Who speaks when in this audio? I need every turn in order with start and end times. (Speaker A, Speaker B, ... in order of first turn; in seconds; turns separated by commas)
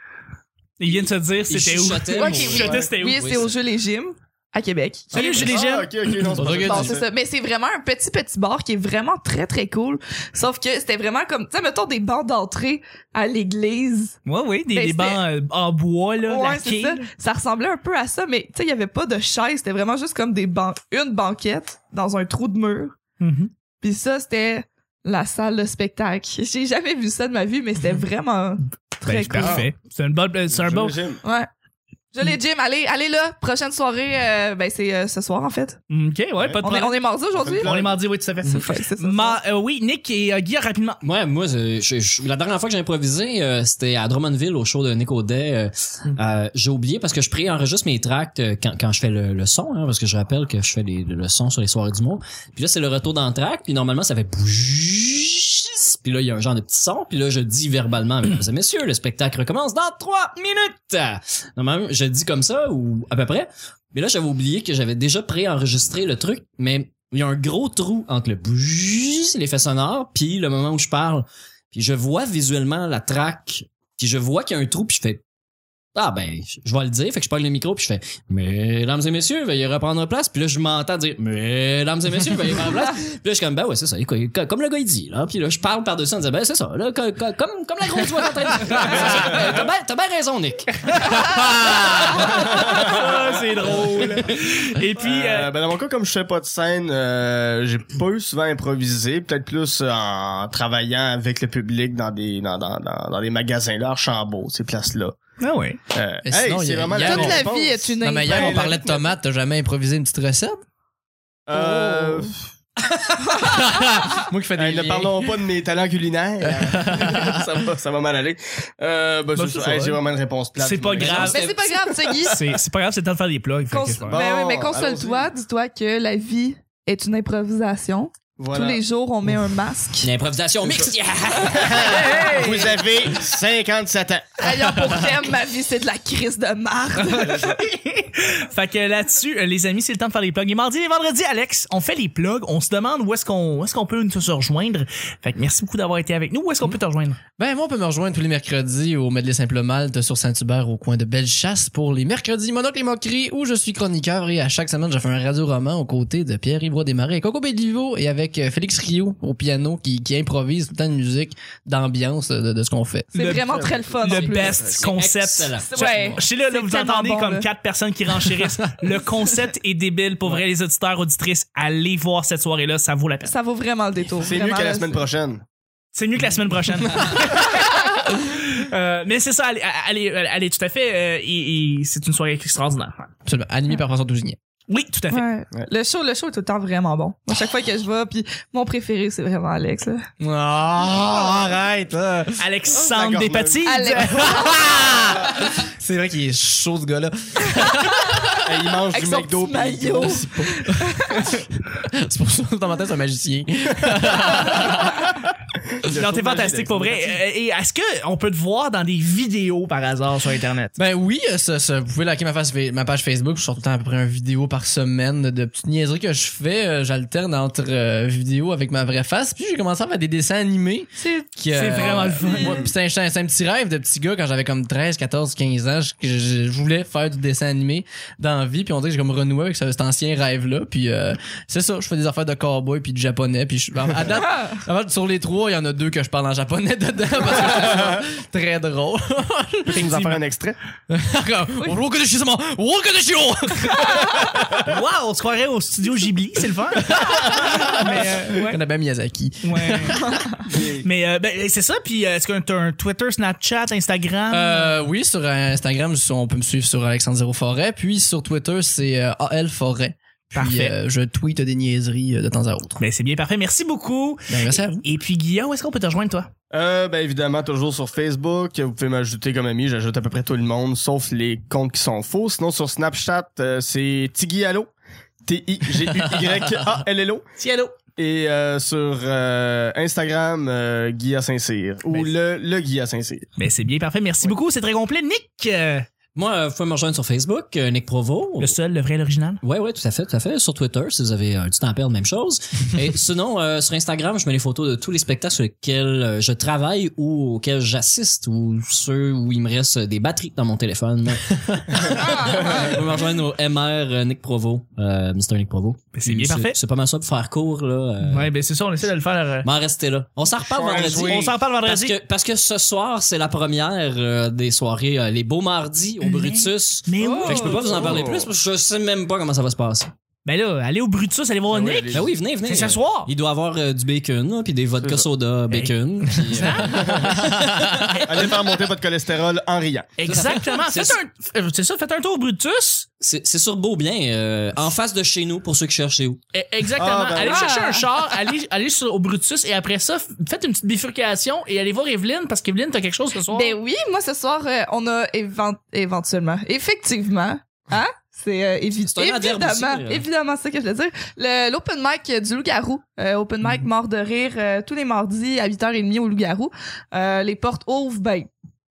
Speaker A: 0.8-3.4, Speaker B: 1.5-3.5, Speaker C: 2.1-5.6, Speaker D: 5.1-7.0, Speaker A: 5.1-6.3, Speaker E: 6.4-7.0, Speaker C: 6.4-14.2, Speaker A: 14.3-17.0, Speaker C: 14.7-15.2, Speaker C: 16.2-23.0, Speaker A: 23.2-23.5, Speaker C: 23.8-29.6, Speaker A: 29.1-31.0, Speaker D: 29.4-29.7, Speaker D: 30.5-31.2, Speaker C: 31.2-31.5, Speaker C: 32.1-35.8, Speaker A: 35.9-37.0, Speaker D: 36.4-36.7, Speaker C: 36.6-37.7, Speaker D: 37.3-38.0, Speaker A: 37.6-41.0, Speaker C: 38.4-39.4, Speaker B: 41.0-75.2, Speaker B: 75.9-92.3, Speaker E: 91.1-92.4, Speaker A: 92.3-95.5, Speaker D: 92.3-94.2, Speaker D: 95.0-105.2, Speaker A: 105.4-105.8, Speaker D: 105.9-109.1, Speaker E: 106.3-107.5, Speaker C: 107.0-108.7, Speaker E: 108.0-110.6, Speaker D: 111.5-112.4, Speaker E: 111.5-112.3, Speaker C: 113.3-113.6, Speaker E: 113.4-115.4, Speaker D: 114.6-121.4, Speaker E: 116.4-117.4, Speaker A: 119.3-120.0, Speaker A: 120.6-121.4, Speaker B: 121.0-121.7, Speaker C: 121.3-122.4, Speaker A: 122.2-124.2, Speaker C: 123.7-130.1, Speaker D: 124.1-125.3, Speaker D: 128.4-128.8, Speaker B: 130.0-132.2, Speaker C: 131.6-132.8, Speaker D: 131.6-134.4, Speaker C: 134.4-137.5, Speaker A: 137.0-147.2, Speaker E: 147.4-163.1, Speaker C: 163.1-164.7, Speaker A: 163.1-173.3, Speaker D: 163.4-164.8, Speaker B: 164.1-166.2, Speaker C: 165.6-167.5, Speaker C: 173.2-175.1, Speaker D: 174.2-175.4, Speaker A: 175.9-183.1, Speaker E: 183.3-184.4, Speaker A: 184.7-185.2, Speaker C: 185.1-190.1, Speaker E: 190.2-192.4, Speaker A: 192.4-194.4, Speaker D: 192.8-193.6, Speaker C: 193.6-194.9, Speaker E: 194.0-198.4, Speaker C: 197.5-201.4, Speaker D: 198.4-200.2, Speaker E: 200.0-205.3, Speaker D: 205.9-207.2, Speaker A: 205.9-210.7, Speaker E: 210.8-240.2, Speaker C: 221.0-222.4, Speaker A: 221.5-222.6, Speaker D: 239.7-240.6, Speaker A: 239.8-240.1, Speaker E: 240.9-244.6, Speaker A: 244.5-248.6, Speaker E: 246.9-250.3, Speaker A: 249.4-250.1, Speaker D: 250.5-250.9, Speaker A: 250.8-254.8, Speaker E: 254.3-262.8, Speaker A: 260.4-260.7, Speaker A: 262.8-266.3, Speaker E: 264.3-264.8, Speaker D: 266.5-274.7, Speaker D: 275.2-277.3, Speaker E: 275.9-276.6, Speaker A: 277.4-277.7, Speaker D: 278.0-283.3, Speaker A: 283.4-285.9, Speaker B: 286.1-288.6, Speaker A: 288.4-289.4, Speaker B: 289.4-308.3, Speaker C: 301.9-302.8, Speaker D: 302.4-302.9, Speaker A: 305.9-306.6, Speaker A: 308.0-309.5, Speaker B: 309.4-319.9, Speaker D: 310.4-311.3, Speaker A: 310.9-311.9, Speaker A: 316.0-318.0, Speaker C: 317.0-317.7, Speaker D: 317.2-318.3, Speaker A: 320.3-323.1, Speaker D: 321.5-322.1, Speaker B: 321.9-327.9, Speaker D: 324.8-325.1, Speaker A: 325.5-326.9, Speaker E: 326.2-327.9, Speaker D: 326.6-327.1, Speaker A: 327.9-328.3, Speaker D: 328.1-330.0, Speaker A: 330.0-332.9, Speaker B: 330.1-331.0, Speaker B: 333.0-336.2, Speaker A: 336.3-343.6, Speaker D: 336.8-337.5, Speaker C: 337.2-337.9, Speaker C: 343.3-358.3, Speaker B: 348.9-350.1